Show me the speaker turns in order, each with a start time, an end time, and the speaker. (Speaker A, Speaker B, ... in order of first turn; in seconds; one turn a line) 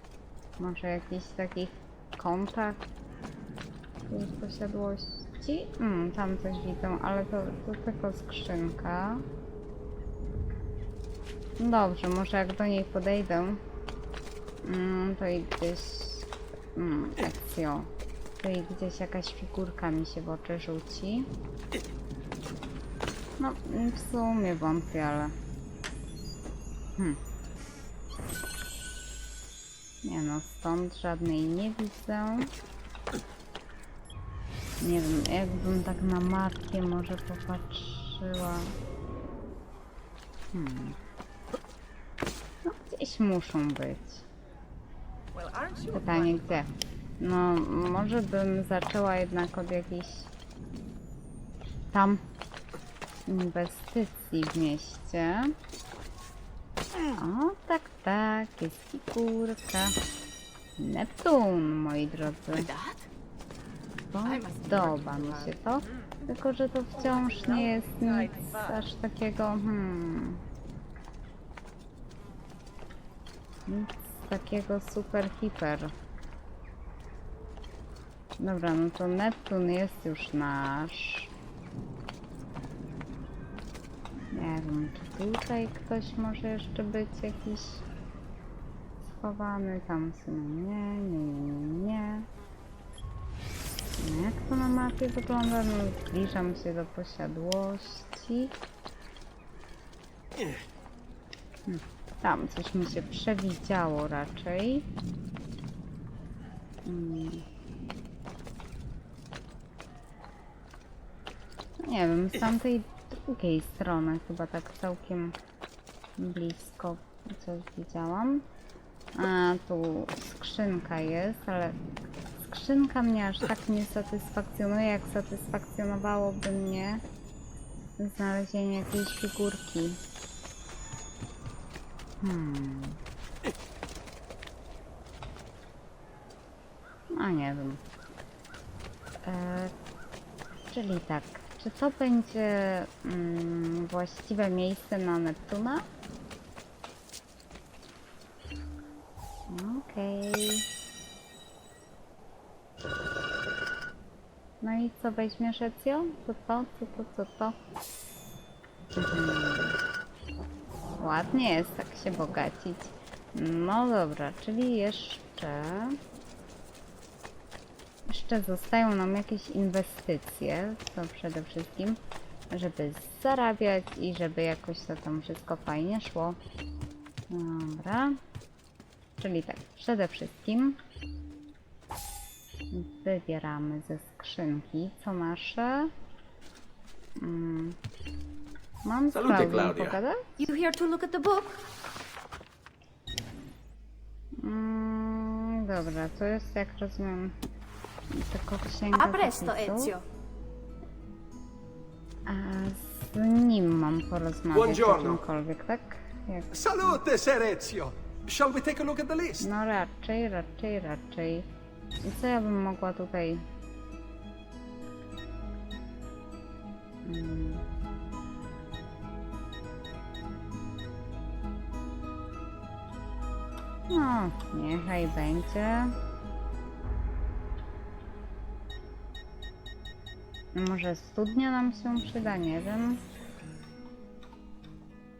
Speaker A: 0.6-2.8
Speaker A: 4.1-9.2
Speaker A: 11.6-13.6
Speaker A: 14.6-21.3
Speaker A: 23.4-25.4
Speaker A: 30.0-32.5
Speaker A: 34.8-38.7
Speaker A: 40.5-41.0
Speaker A: 42.6-44.3
Speaker B: 45.3-46.4
Speaker A: 45.9-50.3
Speaker A: 51.9-52.2
Speaker A: 53.3-55.5
Speaker A: 57.1-60.0
Speaker A: 60.8-62.7
Speaker B: 62.5-63.1
Speaker A: 64.1-70.4
Speaker B: 64.2-65.5
Speaker A: 73.7-75.9
Speaker A: 78.4-81.3
Speaker A: 84.3-87.8
Speaker A: 89.0-92.3
Speaker A: 94.0-98.5
Speaker A: 101.7-104.9
Speaker A: 106.8-107.5
Speaker A: 111.8-115.4
Speaker A: 116.2-118.4
Speaker A: 119.2-121.8
Speaker A: 122.5-127.0
Speaker A: 128.0-130.0
Speaker A: 132.2-133.0
Speaker A: 137.1-137.8
Speaker A: 139.2-139.7
Speaker A: 140.7-145.9
Speaker A: 149.5-150.7
Speaker A: 154.6-157.6
Speaker A: 159.0-159.8
Speaker A: 161.0-166.0
Speaker A: 168.1-172.0
Speaker A: 172.5-176.4
Speaker A: 177.3-178.2
Speaker A: 179.2-180.8
Speaker A: 182.7-185.9
Speaker A: 187.2-187.8
Speaker A: 188.8-190.3
Speaker C: 189.1-190.0
Speaker B: 190.4-191.7
Speaker A: 194.4-197.4
Speaker A: 198.1-200.0
Speaker B: 198.9-200.0
Speaker A: 202.3-206.5
Speaker C: 204.5-205.2
Speaker C: 206.5-209.4
Speaker A: 209.4-211.5
Speaker A: 212.0-213.4
Speaker A: 217.1-217.7
Speaker A: 223.9-225.9
Speaker A: 230.5-233.0